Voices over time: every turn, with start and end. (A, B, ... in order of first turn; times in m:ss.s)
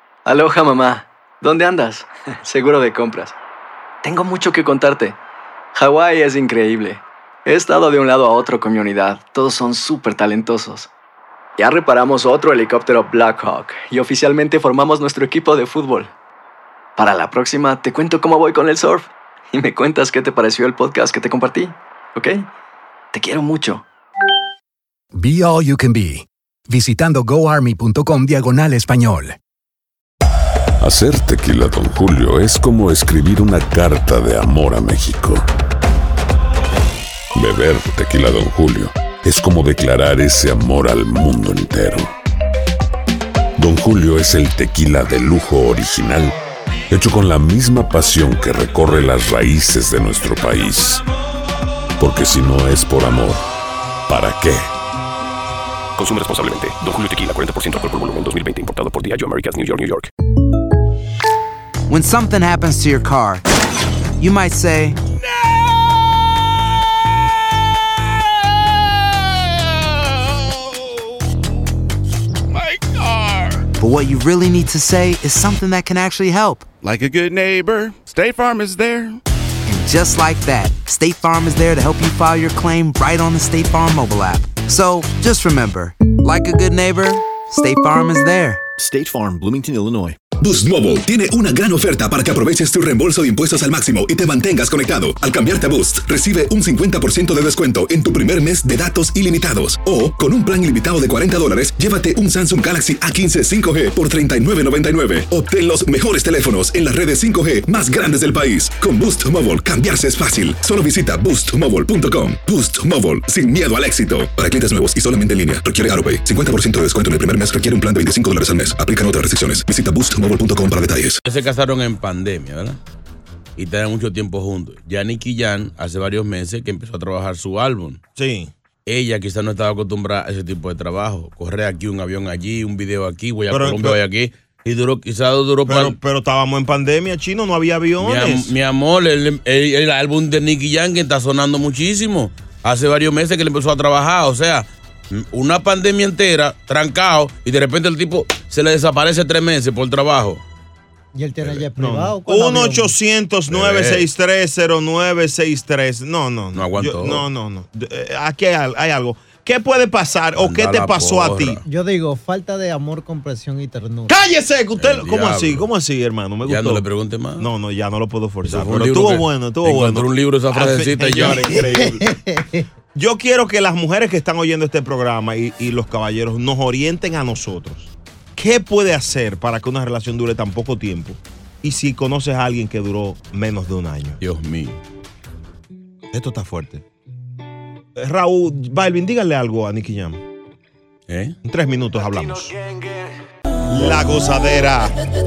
0:00.2-0:03.3 A
0:04.0-0:05.2 A
0:05.7-0:10.9 A
0:11.6-0:16.1 A
0:17.0-0:22.5 A
0:23.1-0:23.8 A
0:25.1-0:29.4 B
0:30.8-0:35.4 C
0:37.3-0:42.1 C
0:43.6-0:46.4 C
0:46.9-0:51.0 C
0:52.0-0:53.4 C
0:54.1-0:54.7 C
0:56.0-1:00.1 D
1:01.9-1:03.4 E
1:04.2-1:05.0 E
1:13.8-1:16.6 E
1:16.8-1:19.2 F
1:19.7-1:28.6 E
1:30.4-2:01.2 G
2:01.2-2:02.8 H
2:03.6-2:08.0 H
2:08.2-2:08.5 I
2:08.8-2:16.0 H
2:13.5-2:14.0 I
2:15.7-2:18.5 I
2:18.0-2:30.4 H
2:31.1-2:32.9 J
2:31.5-2:41.6 I
2:33.5-2:34.0 H
2:36.5-2:37.2 H
2:40.4-2:41.6 H
2:41.7-2:44.2 J
2:44.1-2:46.8 I
2:44.8-2:45.6 H
2:46.4-2:47.5 H
2:47.4-2:52.1 I
2:48.4-2:51.6 H
2:51.5-2:52.6 J
2:52.9-3:04.2 I
3:04.2-3:04.8 H
3:06.1-3:06.8 I
3:08.0-3:10.2 I
3:11.1-3:11.4 H
3:11.4-3:12.5 I
3:13.7-3:14.9 I